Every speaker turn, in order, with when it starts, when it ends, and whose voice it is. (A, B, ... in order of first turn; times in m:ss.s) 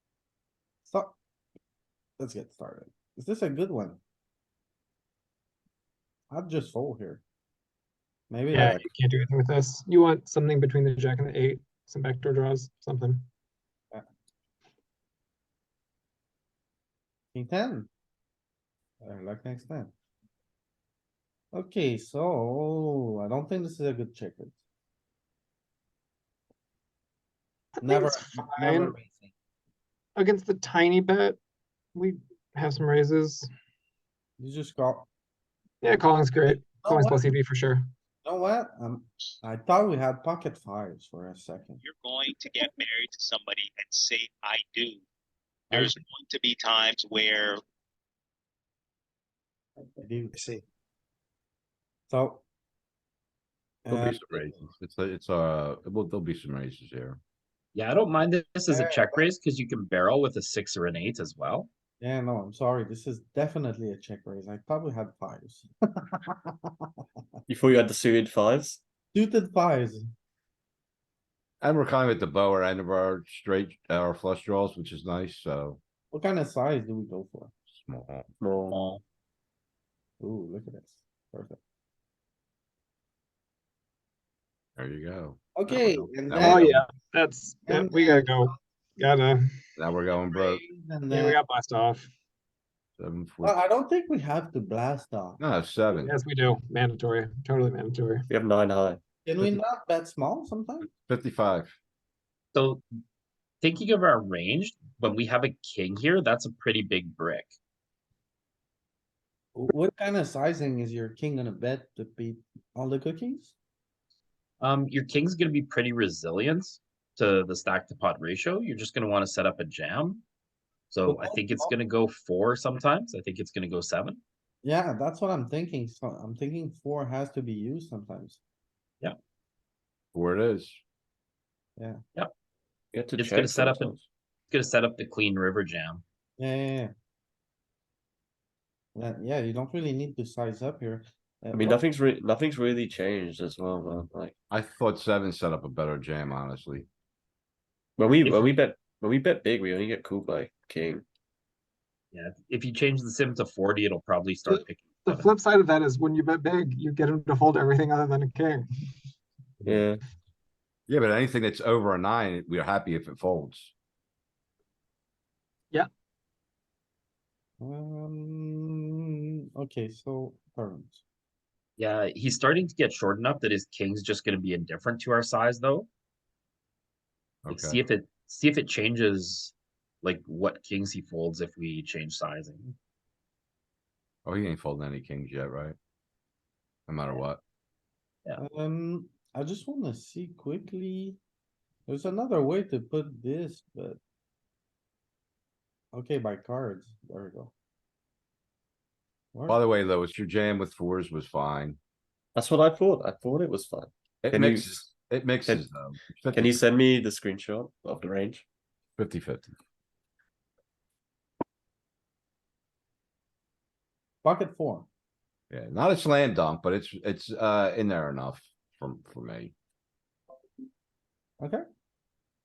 0:00.8-0:01.2 A
0:02.2-0:04.0 A
0:06.3-0:07.2 A
0:08.3-0:08.8 A
0:08.5-0:13.3 B
0:17.3-0:17.9 A
0:19.0-0:19.9 A
0:21.5-0:24.6 A
0:27.8-0:29.0 B
0:27.8-0:29.3 A
0:30.2-0:31.4 B
0:31.9-0:33.5 B
0:34.4-0:35.1 A
0:35.8-0:37.9 B
0:36.7-0:37.2 A
0:38.2-0:41.8 A
0:41.8-0:45.0 C
0:45.7-0:47.6 C
0:50.0-0:50.5 A
0:52.1-0:52.4 A
0:53.8-0:54.6 A
0:53.9-0:57.2 D
0:57.7-1:01.7 E
0:58.7-0:59.2 A
1:02.0-1:06.7 A
1:07.5-1:08.8 F
1:09.1-1:10.1 A
1:11.6-1:15.8 D
1:16.1-1:17.5 A
1:17.7-1:18.3 D
1:18.4-1:18.8 F
1:18.7-1:19.0 E
1:20.2-1:21.6 A
1:24.8-1:26.8 D
1:25.6-1:26.6 A
1:26.4-1:29.4 B
1:27.6-1:28.3 A
1:29.8-1:30.6 D
1:30.3-1:31.4 A
1:31.1-1:32.1 B
1:33.0-1:33.6 D
1:33.4-1:35.4 A
1:35.4-1:36.2 D
1:36.0-1:38.3 B
1:38.3-1:39.6 F
1:39.2-1:40.9 A
1:41.1-1:41.7 D
1:42.5-1:42.8 E
1:43.6-1:47.5 E
1:49.5-1:53.5 A
1:54.6-2:00.2 E
2:00.9-2:04.2 E
2:01.0-2:01.7 A
2:04.6-2:08.4 A
2:10.1-2:10.8 D
2:12.9-2:14.0 F
2:13.1-2:14.0 E
2:14.5-2:16.0 E
2:16.4-2:16.9 A
2:18.9-2:21.8 A
2:21.5-2:24.3 F
2:24.5-2:26.9 D
2:28.0-2:31.0 F
2:28.2-2:28.5 E
2:32.1-2:35.3 E
2:34.5-2:38.7 B
2:39.6-2:40.0 F
2:40.9-2:43.7 D
2:47.6-2:51.0 A
2:51.8-2:55.9 E
2:57.4-2:57.8 D
2:57.5-3:02.6 E
3:04.2-3:05.8 D
3:06.9-3:07.4 D
3:08.4-3:11.2 A
3:11.9-3:14.0 A
3:15.9-3:17.5 A
3:19.3-3:19.6 A
3:19.5-3:21.8 D
3:22.3-3:24.9 F
3:24.2-3:26.6 D
3:26.3-3:28.4 F
3:29.0-3:29.5 D
3:34.2-3:34.9 A
3:35.5-3:39.5 D